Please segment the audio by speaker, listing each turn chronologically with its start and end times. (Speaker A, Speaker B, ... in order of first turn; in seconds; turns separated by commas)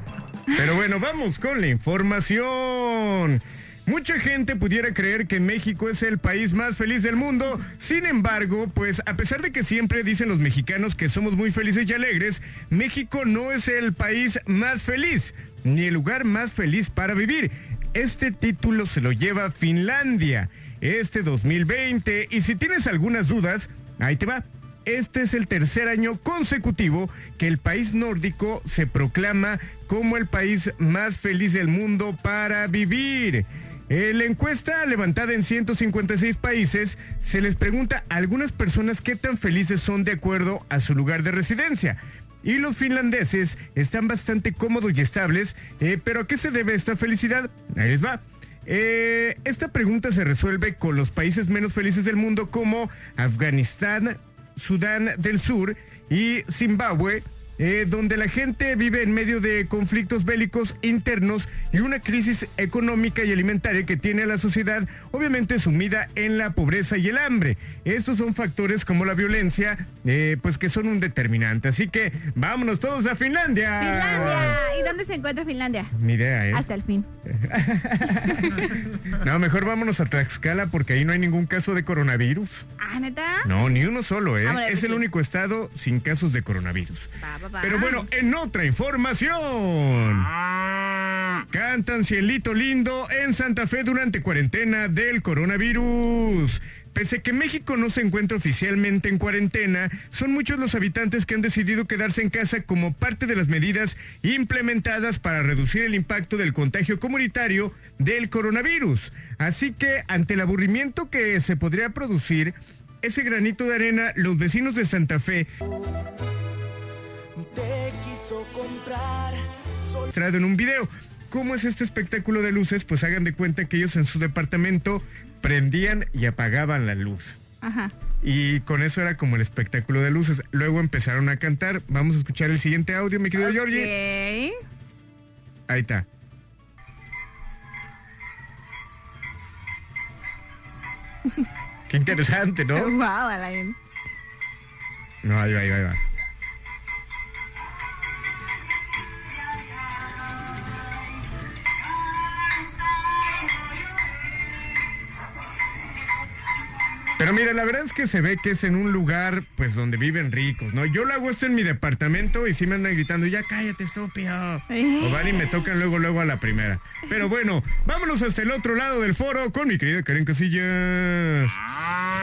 Speaker A: 0.5-74.7, Speaker B: 73.8-75.9, Speaker A: 75.9-76.7, Speaker B: 76.5-77.1, Speaker A: 77.2-82.7, Speaker B: 78.3-78.7, Speaker B: 82.8-83.5, Speaker A: 83.4-90.3, Speaker B: 84.4-85.0, Speaker B: 87.2-88.1, Speaker A: 91.5-115.5, Speaker C: 117.3-120.1, Speaker A: 120.1-127.4, Speaker B: 127.6-127.9, Speaker A: 128.2-133.9, Speaker B: 133.4-134.6, Speaker A: 135.7-136.1, Speaker A: 141.9-142.9, Speaker B: 142.7-143.8, Speaker A: 145.2-146.0, Speaker A: 157.2-171.6, Speaker B: 164.7-165.5